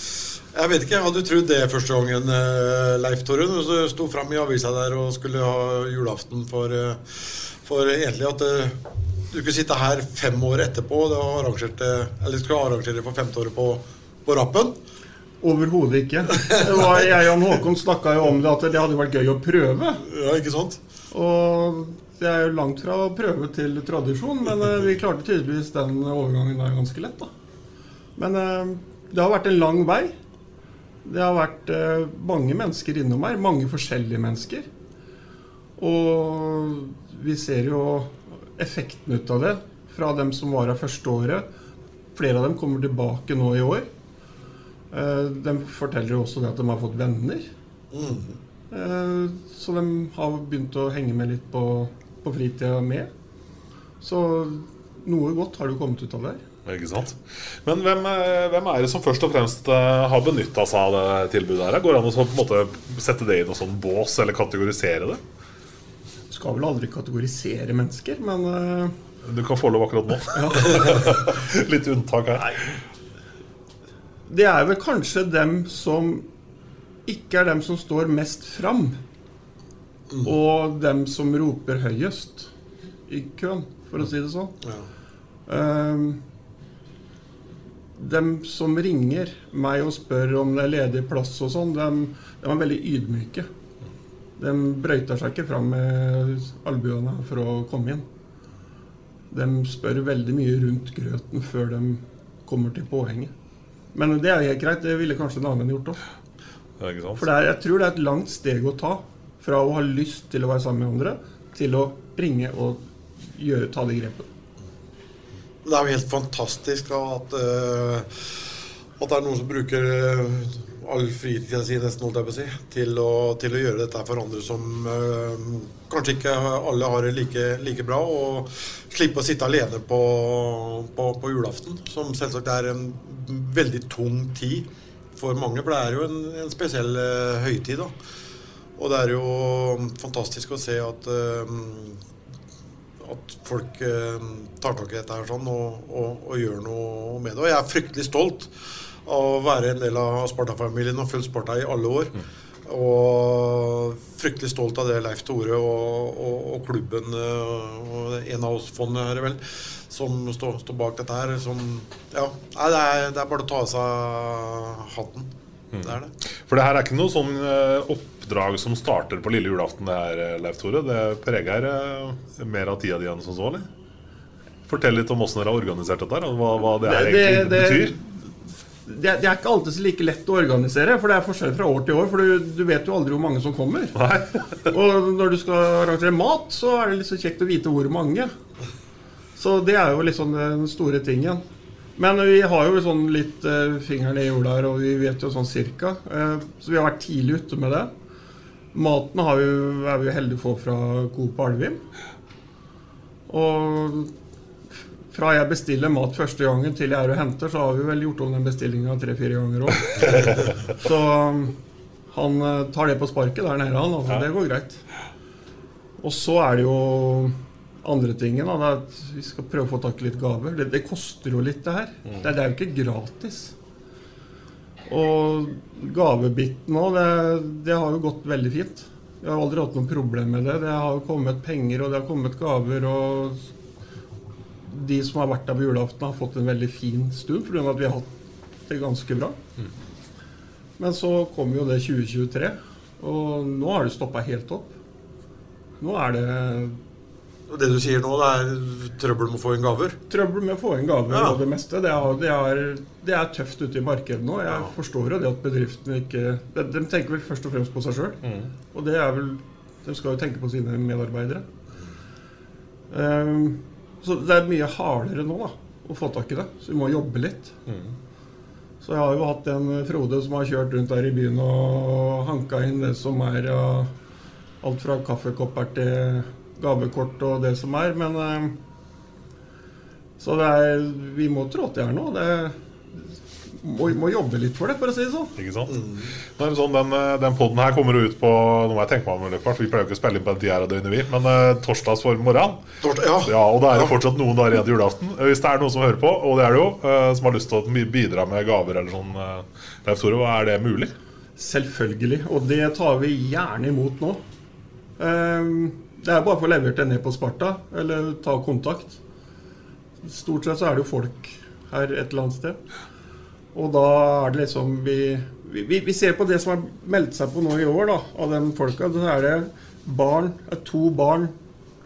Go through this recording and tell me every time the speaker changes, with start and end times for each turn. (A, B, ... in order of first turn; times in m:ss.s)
0:00.4-0:08.8 A
0:09.3-0:14.8 A
0:15.4-0:20.0 B
0:16.5-0:17.0 A
0:20.0-0:20.8 A
0:21.1-0:27.3 B
0:28.2-0:30.2 B
0:31.0-0:34.7 B
0:35.8-0:41.5 B
0:42.1-0:43.9 B
0:44.9-0:47.5 B
0:47.9-0:48.4 A
0:48.7-0:53.1 B
0:54.0-0:56.4 B
0:56.7-1:05.2 C
1:06.3-1:09.0 B
1:09.2-1:12.7 C
1:10.3-1:11.3 B
1:12.4-1:12.7 B
1:14.3-1:16.3 B
1:17.1-1:19.0 B
1:20.1-1:20.4 A
1:20.2-1:22.5 B
1:23.1-1:24.6 B
1:24.6-1:24.9 A
1:25.5-1:26.2 B
1:28.0-1:33.5 B
1:34.4-1:38.1 B
1:39.3-1:43.3 B
1:43.9-1:46.0 B
1:46.8-1:47.3 C
1:47.2-1:54.3 B
1:55.6-1:58.5 A
1:59.0-2:17.9 A
2:18.8-2:22.0 A
2:23.0-2:28.5 A
2:29.0-2:32.2 A
2:32.7-2:46.1 A
2:45.7-2:53.7 C
2:54.7-2:58.0 C
2:56.8-2:58.2 B
2:58.9-3:04.0 B
3:04.0-3:04.6 C
3:04.7-3:08.3 B
3:09.4-3:11.4 B
3:12.0-3:17.9 B
3:18.7-3:21.8 B
3:23.3-3:24.1 B
3:25.1-3:31.6 B
3:32.1-3:34.8 B
3:36.0-3:43.5 B
3:44.9-3:53.4 B
3:54.6-3:58.1 B
3:58.7-3:59.4 B
4:00.8-4:04.7 B
4:05.8-4:06.8 B
4:07.5-4:10.0 A
4:10.1-4:18.2 B
4:11.1-4:11.4 A
4:18.2-4:18.5 C
4:18.7-4:21.5 B
4:22.9-4:27.6 B
4:27.7-4:27.9 C
4:28.8-4:33.9 B
4:34.6-4:38.6 B
4:40.2-4:42.6 B
4:43.5-4:45.3 B
4:45.4-4:52.6 C
4:45.7-4:46.1 A
4:52.8-4:53.9 A
4:53.2-5:00.9 C
5:01.4-5:04.2 B
5:05.0-5:09.0 B
5:10.0-5:12.6 B
5:13.5-5:21.4 B